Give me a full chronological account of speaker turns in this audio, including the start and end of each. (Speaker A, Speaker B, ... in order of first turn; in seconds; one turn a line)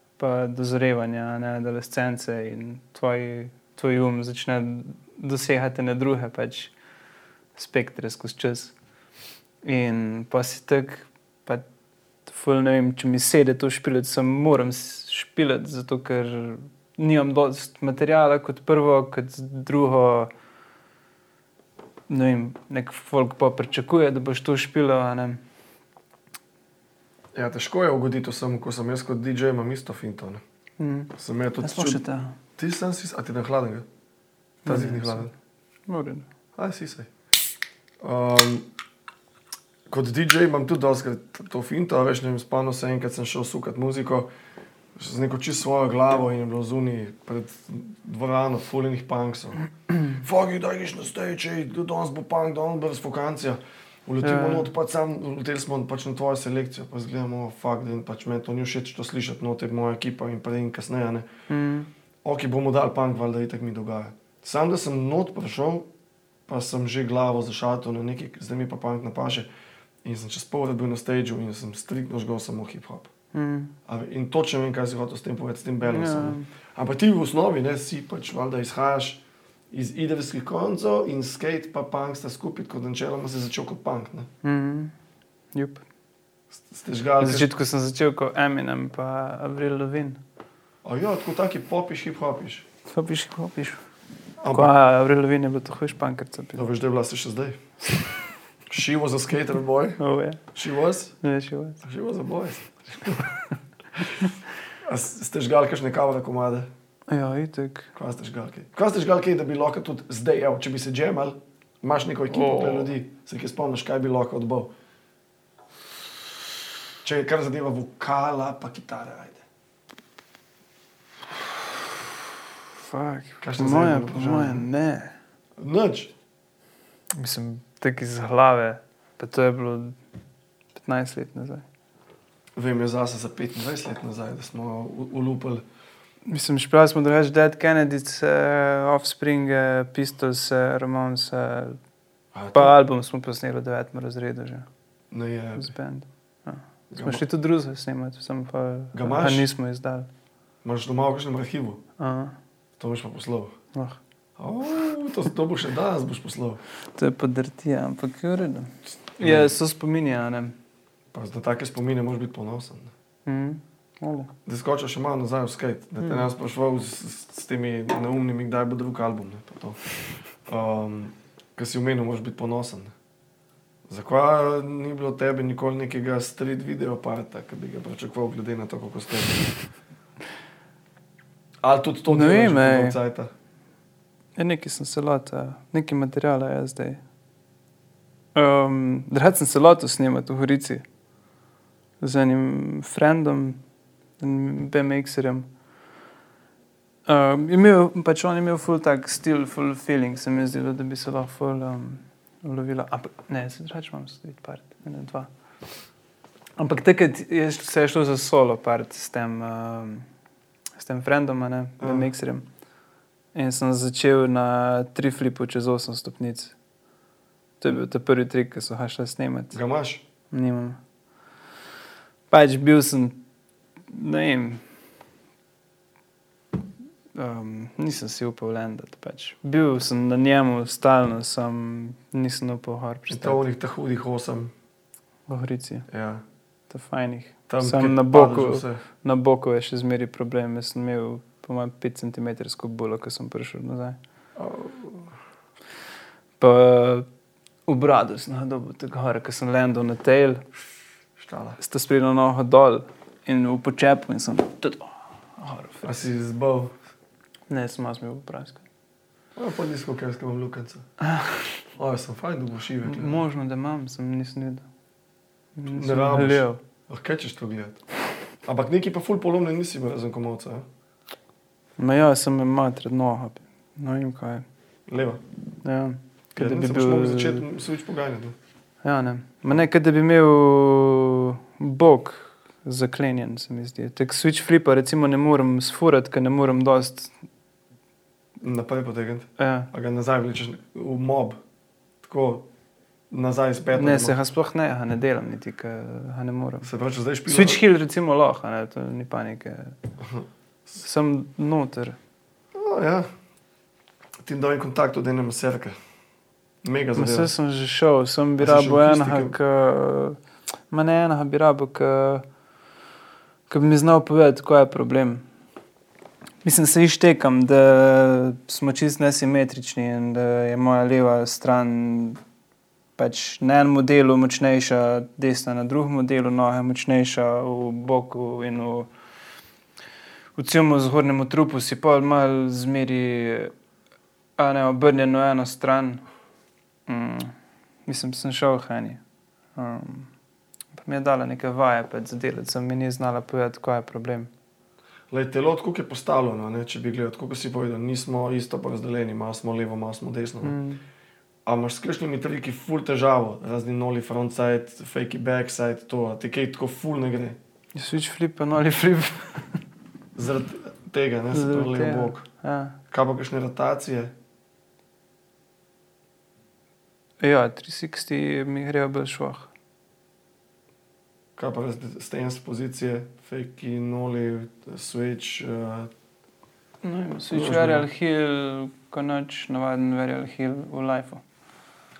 Speaker A: 0.2-6.7
Speaker A: 7.5-8.7
Speaker A: 9.6-11.7
Speaker A: 12.2-20.3
Speaker A: 22.1-25.4
Speaker B: 27.3-30.4
Speaker A: 30.8-32.4
Speaker B: 31.1-32.0
Speaker B: 32.6-33.9
Speaker A: 34.6-35.3
Speaker B: 34.6-35.3
Speaker A: 35.9-36.2
Speaker B: 36.5-37.1
Speaker B: 38.0-38.7
Speaker B: 39.9-44.3
Speaker B: 45.0-61.3
Speaker A: 54.2-54.7
Speaker A: 61.5-61.9
Speaker B: 62.2-65.9
Speaker B: 66.5-69.5
Speaker B: 70.0-73.1
Speaker A: 73.3-73.7
Speaker B: 73.9-84.3
Speaker A: 75.8-76.5
Speaker A: 84.4-84.9
Speaker A: 85.5-85.8
Speaker B: 86.6-87.5
Speaker A: 87.2-90.2
Speaker B: 90.8-92.7
Speaker A: 92.8-93.8
Speaker B: 94.4-94.7
Speaker A: 94.5-96.6
Speaker B: 96.5-98.0
Speaker B: 98.7-100.0
Speaker A: 100.0-100.4
Speaker B: 100.5-101.2
Speaker A: 101.2-101.8
Speaker B: 101.8-103.3
Speaker B: 104.8-106.7
Speaker A: 107.1-107.9
Speaker B: 107.9-114.7
Speaker A: 112.3-112.9
Speaker B: 117.0-119.4
Speaker A: 122.8-125.2
Speaker B: 123.4-124.7
Speaker B: 125.6-126.1
Speaker A: 127.1-130.0
Speaker A: 130.7-131.6
Speaker B: 132.6-135.6
Speaker A: 136.2-141.8
Speaker B: 142.3-142.7
Speaker A: 142.5-144.7
Speaker B: 145.1-145.7
Speaker A: 145.6-150.1
Speaker B: 146.9-147.2
Speaker B: 148.9-149.5
Speaker B: 150.6-151.8
Speaker A: 152.0-152.3
Speaker B: 152.8-153.6
Speaker A: 153.7-154.0
Speaker B: 154.4-156.6
Speaker A: 156.8-160.5
Speaker B: 159.2-159.5
Speaker B: 161.1-162.9
Speaker A: 163.2-164.3
Speaker B: 164.4-169.8
Speaker A: 166.0-166.2
Speaker B: 170.4-172.9
Speaker B: 173.9-179.4
Speaker B: 181.6-183.3
Speaker A: 182.1-183.0
Speaker A: 184.3-187.0
Speaker A: 188.3-190.8
Speaker A: 192.0-193.6
Speaker A: 194.2-195.5
Speaker A: 197.1-205.3
Speaker A: 206.6-210.1
Speaker A: 210.8-212.4
Speaker B: 211.8-212.1
Speaker A: 213.3-216.6
Speaker A: 217.6-219.6
Speaker B: 219.5-220.0
Speaker A: 220.3-220.8
Speaker A: 222.3-223.2
Speaker A: 223.9-224.6
Speaker A: 227.1-233.4
Speaker B: 233.1-234.5
Speaker A: 235.3-235.9
Speaker B: 235.9-236.2
Speaker A: 236.7-244.0
Speaker B: 237.5-238.8
Speaker B: 244.3-245.1
Speaker A: 246.4-247.1
Speaker A: 247.7-250.4
Speaker B: 251.2-251.6
Speaker A: 251.6-255.9
Speaker B: 255.8-256.7
Speaker A: 257.5-258.6
Speaker B: 259.4-260.9
Speaker A: 261.0-261.5
Speaker B: 261.7-263.2
Speaker A: 262.8-264.6
Speaker A: 265.5-266.6
Speaker B: 265.7-267.8
Speaker B: 268.4-270.6
Speaker A: 271.8-274.4
Speaker B: 274.9-275.2
Speaker A: 275.6-277.4
Speaker B: 276.4-278.4
Speaker A: 278.8-287.1
Speaker B: 288.4-291.4
Speaker A: 289.4-289.7
Speaker B: 292.0-292.5
Speaker B: 293.1-294.1
Speaker A: 293.7-296.7
Speaker B: 296.6-297.6
Speaker A: 297.2-299.8
Speaker B: 300.0-300.3
Speaker A: 300.8-302.0
Speaker B: 302.5-303.1
Speaker B: 304.2-305.8
Speaker B: 306.6-307.3
Speaker A: 306.9-310.2
Speaker B: 308.4-309.4
Speaker A: 310.7-312.2
Speaker A: 313.5-315.2
Speaker A: 316.4-322.2
Speaker A: 323.0-328.9
Speaker A: 330.3-333.5
Speaker A: 334.4-336.0
Speaker A: 336.9-337.3
Speaker A: 337.9-339.0
Speaker A: 339.5-340.1
Speaker A: 340.7-344.3
Speaker B: 345.1-350.6
Speaker A: 350.4-350.8
Speaker B: 351.4-357.4
Speaker A: 357.7-359.6
Speaker B: 360.1-362.2
Speaker A: 361.3-362.8
Speaker B: 362.9-364.1
Speaker A: 367.2-369.5
Speaker B: 371.4-375.9
Speaker A: 376.8-381.2
Speaker B: 377.3-377.9